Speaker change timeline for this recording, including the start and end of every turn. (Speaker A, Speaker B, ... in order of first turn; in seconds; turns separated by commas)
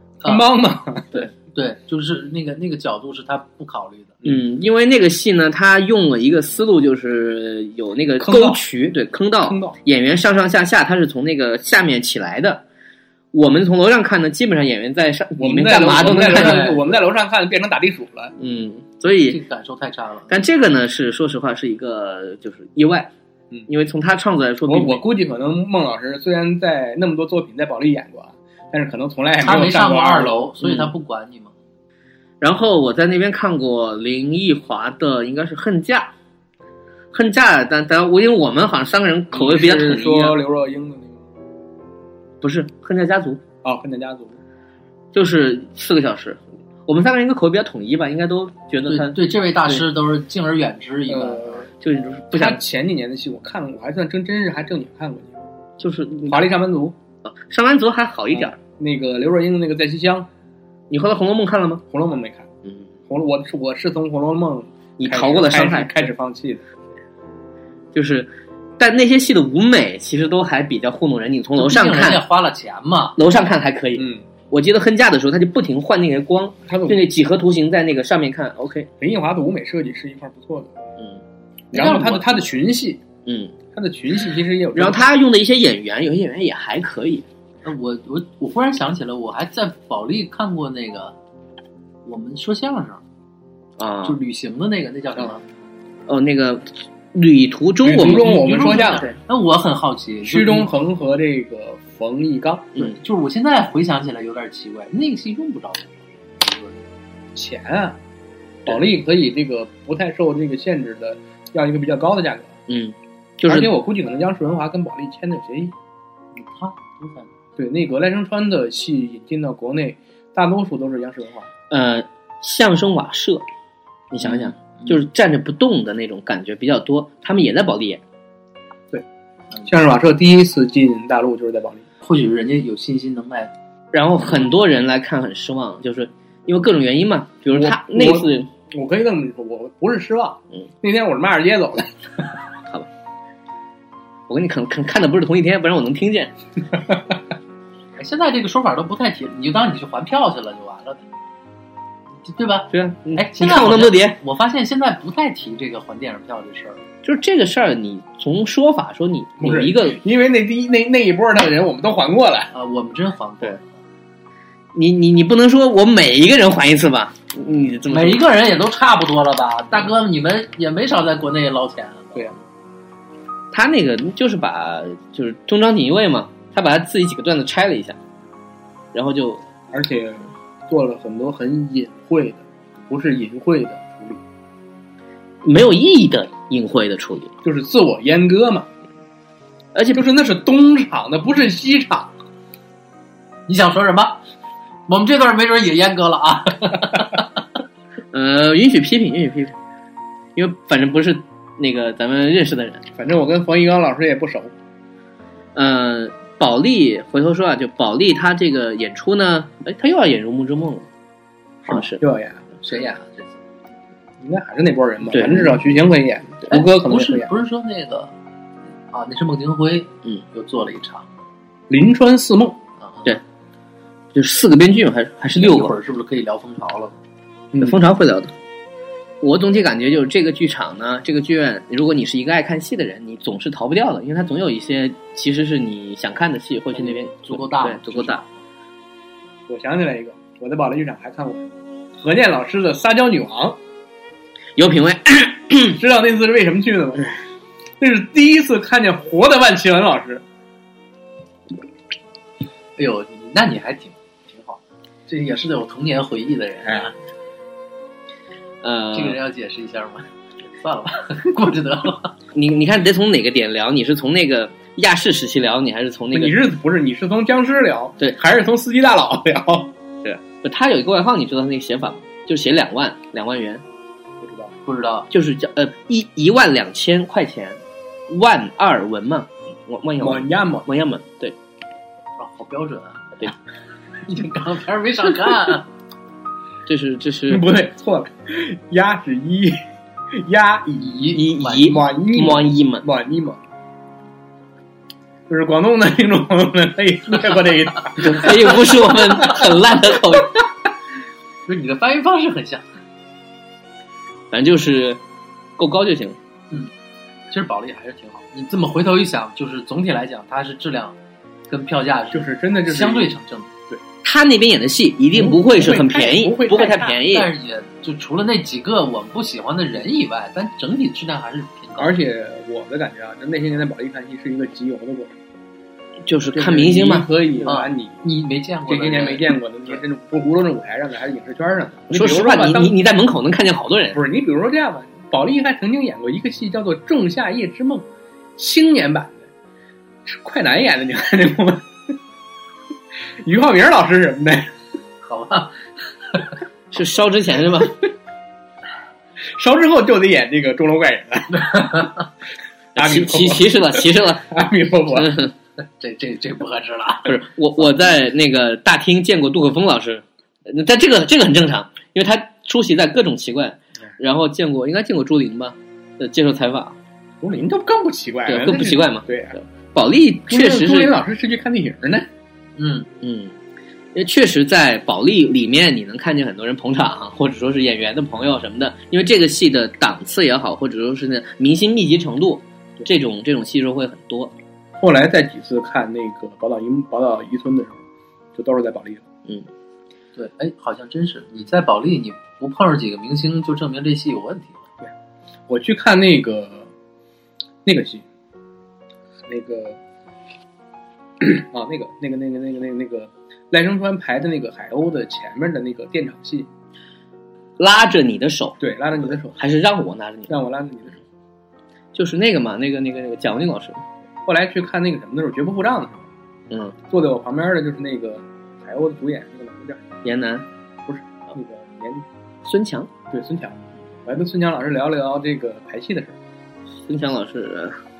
Speaker A: 0.2-1.1, Speaker B: 1.4-4.2, Speaker C: 4.2-12.6, Speaker A: 8.2-8.6, Speaker A: 9.4-9.8, Speaker C: 13.3-16.8, Speaker A: 15.4-18.3, Speaker B: 16.2-16.8, Speaker C: 18.4-19.4, Speaker B: 19.3-20.4, Speaker C: 20.3-23.1, Speaker C: 23.7-25.0, Speaker A: 24.7-30.4, Speaker B: 29.4-31.5, Speaker C: 30.6-30.9, Speaker C: 32.4-36.1, Speaker C: 37.1-40.4, Speaker A: 39.3-41.2, Speaker C: 42.4-43.4, Speaker A: 43.6-44.4, Speaker C: 45.1-49.8, Speaker B: 48.9-51.6, Speaker A: 51.1-51.7, Speaker C: 51.8-52.6, Speaker A: 52.3-55.3, Speaker C: 55.8-56.5, Speaker A: 56.2-57.0, Speaker C: 57.2-58.6, Speaker A: 58.3-60.3, Speaker C: 60.9-61.8, Speaker A: 61.9-62.5, Speaker A: 63.1-66.6, Speaker C: 65.0-66.0, Speaker C: 67.9-72.2, Speaker B: 71.5-73.2, Speaker C: 73.2-78.9, Speaker A: 74.0-74.2, Speaker A: 76.7-77.0, Speaker A: 79.0-80.7, Speaker A: 81.7-83.0, Speaker B: 81.7-82.4, Speaker C: 83.2-83.5, Speaker A: 83.7-85.1, Speaker C: 84.7-87.2, Speaker B: 87.6-91.1, Speaker B: 92.0-93.0, Speaker C: 93.8-94.2, Speaker B: 94.0-95.4, Speaker C: 96.1-98.4, Speaker A: 97.8-99.1, Speaker B: 98.0-100.7, Speaker A: 100.2-102.8, Speaker B: 102.8-106.8, Speaker A: 107.3-108.0, Speaker A: 108.7-112.5, Speaker C: 112.7-113.7, Speaker A: 113.5-115.7, Speaker B: 116.3-117.3, Speaker A: 117.6-121.5, Speaker C: 121.7-123.4, Speaker C: 124.1-128.0, Speaker A: 129.7-131.8, Speaker B: 132.0-133.5, Speaker C: 133.9-138.5, Speaker A: 137.5-142.3, Speaker C: 144.3-146.3, Speaker B: 148.0-151.0, Speaker B: 152.2-156.8, Speaker C: 152.7-154.2, Speaker C: 157.0-160.0, Speaker A: 159.4-162.5, Speaker B: 162.5-163.7, Speaker C: 164.7-168.2, Speaker B: 167.9-172.3, Speaker C: 173.5-178.0, Speaker C: 178.9-179.4, Speaker A: 179.7-184.2, Speaker C: 185.4-187.3, Speaker A: 187.4-188.7, Speaker C: 189.7-190.0, Speaker A: 189.9-192.1, Speaker B: 193.5-194.2, Speaker B: 194.9-197.2, Speaker C: 198.1-199.6, Speaker C: 200.3-202.8, Speaker A: 202.9-204.5, Speaker C: 205.5-210.9, Speaker C: 211.7-212.0, Speaker A: 211.7-212.5, Speaker B: 212.6-213.4, Speaker A: 214.2-217.3, Speaker C: 215.1-215.5, Speaker B: 216.5-218.1, Speaker B: 218.9-221.1, Speaker A: 221.7-222.6, Speaker B: 222.8-223.1, Speaker C: 224.1-225.7, Speaker B: 225.3-227.0, Speaker C: 227.6-228.3, Speaker C: 229.2-238.2, Speaker B: 236.7-238.4, Speaker A: 239.5-243.6, Speaker C: 244.6-245.8, Speaker A: 245.7-247.1, Speaker A: 247.8-250.2, Speaker B: 252.8-256.9, Speaker C: 258.6-259.2, Speaker B: 258.9-262.1, Speaker C: 262.3-266.4, Speaker A: 266.1-269.7, Speaker C: 270.0-273.6, Speaker A: 274.2-274.5, Speaker B: 274.6-275.1, Speaker C: 275.1-281.4, Speaker A: 280.0-280.7, Speaker B: 282.2-283.3, Speaker B: 284.1-285.7, Speaker C: 286.6-287.4, Speaker A: 287.3-289.6, Speaker A: 290.1-293.4, Speaker B: 290.8-291.8, Speaker C: 291.1-292.8, Speaker A: 295.3-298.7, Speaker C: 298.0-300.4, Speaker B: 301.5-302.6, Speaker C: 304.3-305.0, Speaker C: 305.6-306.2, Speaker B: 307.3-310.9, Speaker B: 311.5-313.5, Speaker A: 312.1-313.1, Speaker C: 314.0-317.3, Speaker A: 315.1-316.9, Speaker B: 316.5-321.9, Speaker A: 321.8-325.2, Speaker C: 326.0-327.1, Speaker A: 326.3-328.0, Speaker B: 327.4-329.3, Speaker A: 328.7-332.8, Speaker C: 331.9-334.0, Speaker A: 333.9-337.9, Speaker A: 338.4-339.3, Speaker A: 340.1-341.6, Speaker A: 343.2-344.5, Speaker B: 345.0-345.6, Speaker C: 346.7-347.8, Speaker A: 349.3-352.0, Speaker B: 351.5-351.9, Speaker A: 352.7-355.1, Speaker C: 352.8-354.3, Speaker C: 354.9-355.3, Speaker B: 355.8-357.6, Speaker C: 357.1-366.8, Speaker A: 367.2-369.4, Speaker C: 368.3-370.9, Speaker A: 370.3-372.1, Speaker B: 372.6-372.9, Speaker C: 373.0-373.3, Speaker C: 373.9-384.3, Speaker A: 384.8-387.8, Speaker A: 388.3-389.0, Speaker B: 390.1-394.6, Speaker A: 395.5-396.7, Speaker A: 397.6-398.0, Speaker A: 399.3-399.8, Speaker A: 401.2-406.5, Speaker C: 407.6-408.6, Speaker A: 408.6-409.4, Speaker C: 409.3-410.3, Speaker A: 410.3-411.0, Speaker C: 411.9-413.8, Speaker A: 414.2-416.1, Speaker C: 416.5-416.8, Speaker A: 416.9-419.8, Speaker C: 420.0-420.4, Speaker A: 420.9-422.0, Speaker C: 422.4-422.9, Speaker A: 423.1-426.2, Speaker C: 426.7-427.8